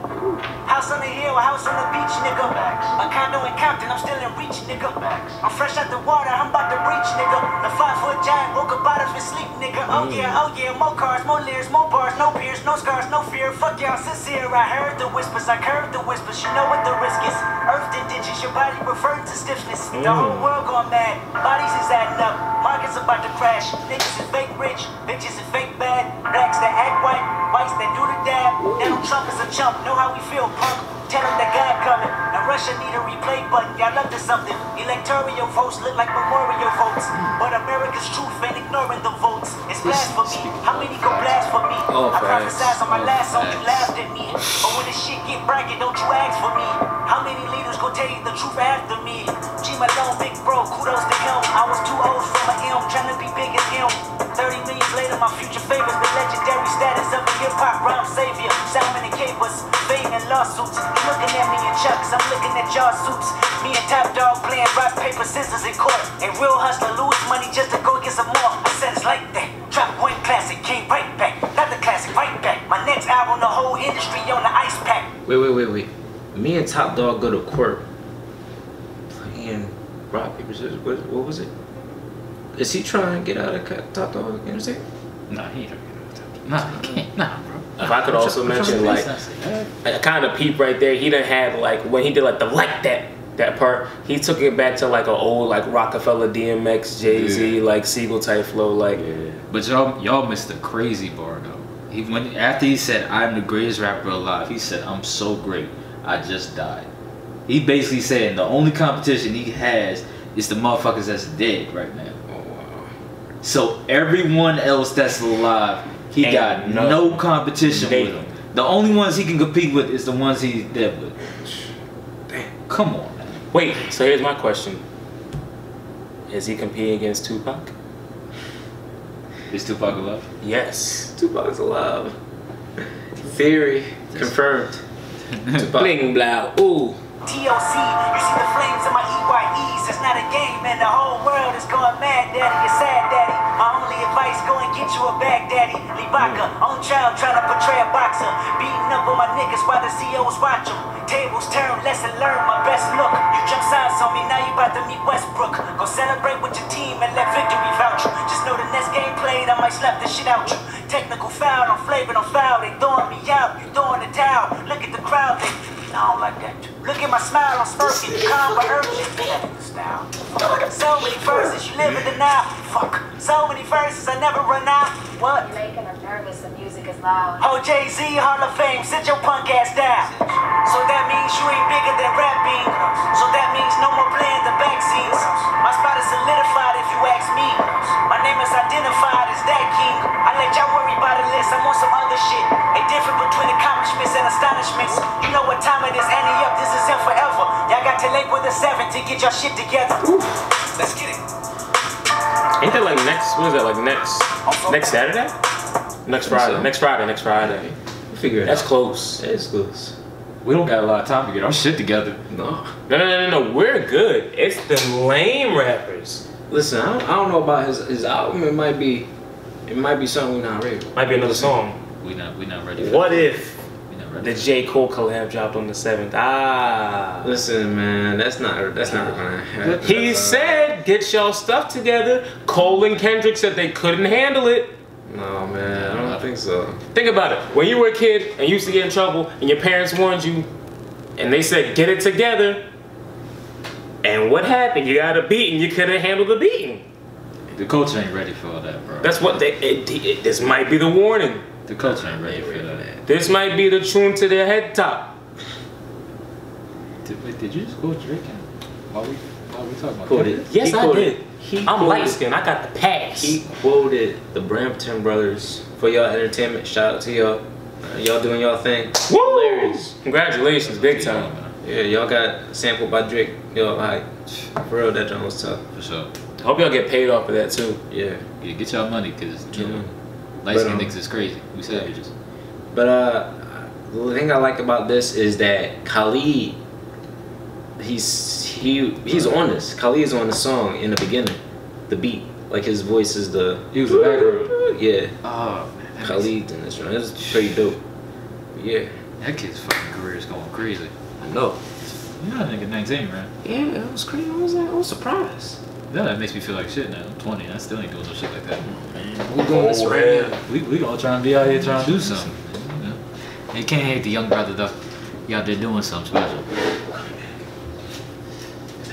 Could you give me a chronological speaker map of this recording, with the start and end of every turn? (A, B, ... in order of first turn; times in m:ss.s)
0:00.6-1:15.1 A
0:09.9-0:10.4 B
0:19.9-0:20.6 B
0:39.8-0:41.5 C
0:41.9-0:42.7 D
0:42.6-0:44.6 C
1:15.2-1:17.8 D
1:19.1-1:21.5 D
1:22.5-1:24.8 D
1:25.3-1:29.7 C
1:27.8-1:29.1 B
1:28.1-1:28.9 D
1:29.8-1:39.0 B
1:37.2-1:37.5 C
1:39.5-1:46.9 C
1:47.5-1:52.2 C
1:52.3-1:52.9 D
1:53.4-2:01.1 C
1:56.2-1:58.3 B
2:02.7-2:03.4 C
2:03.5-2:04.8 B
2:06.3-2:07.7 B
2:09.5-2:10.3 C
2:10.4-2:11.1 B
2:11.1-2:12.1 D
2:13.2-2:14.8 D
2:15.3-2:15.6 C
2:15.5-2:16.0 D
2:15.8-2:17.0 B
2:17.2-2:55.5 A
2:26.2-2:26.5 B
2:55.4-2:57.4 E
2:57.4-3:20.0 A
3:20.0-3:20.3 D
3:20.7-3:21.2 A
3:22.6-3:25.3 B
3:24.4-3:25.1 A
3:26.0-3:27.7 B
3:26.2-3:26.7 D
3:27.5-3:30.0 D
3:28.4-3:29.2 B
3:30.4-3:32.2 C
3:32.3-3:32.7 D
3:32.9-3:36.2 B
3:36.5-3:39.1 D
3:39.6-3:41.5 D
3:40.9-3:41.8 B
3:42.0-3:43.3 C
3:42.8-3:43.6 B
3:43.9-3:44.4 C
3:44.2-3:47.3 B
3:47.2-3:50.7 D
3:49.8-3:54.7 B
3:55.1-3:56.8 D
3:55.7-3:56.3 C
3:56.9-4:00.5 B
4:01.2-4:02.6 B
4:04.0-4:06.8 B
4:07.5-4:09.2 C
4:09.0-4:11.4 B
4:11.7-4:12.8 C
4:11.9-4:13.0 D
4:13.0-4:15.2 B
4:17.0-4:20.4 C
4:20.0-4:22.2 D
4:20.5-4:23.4 B
4:23.2-4:29.9 D
4:29.1-4:31.3 B
4:30.6-4:31.5 C
4:31.6-4:34.1 D
4:34.6-4:35.6 D
4:35.7-4:36.1 C
4:36.4-4:37.8 B
4:37.9-4:38.2 D
4:38.4-4:39.8 C
4:39.5-4:39.9 D
4:40.4-4:42.1 C
4:40.5-4:40.9 D
4:42.7-4:46.6 D
4:47.8-4:55.1 D
4:53.7-4:54.5 C
4:55.2-4:56.3 C
4:56.0-4:57.8 D
4:58.5-4:58.9 D
4:59.2-5:00.9 C
5:01.2-5:01.6 D
5:02.2-5:03.3 C
5:03.4-5:05.6 D
5:05.9-5:08.6 C
5:08.8-5:10.4 D
5:09.5-5:10.3 B
5:10.2-5:13.0 C
5:13.5-5:14.7 C
5:15.3-5:16.5 C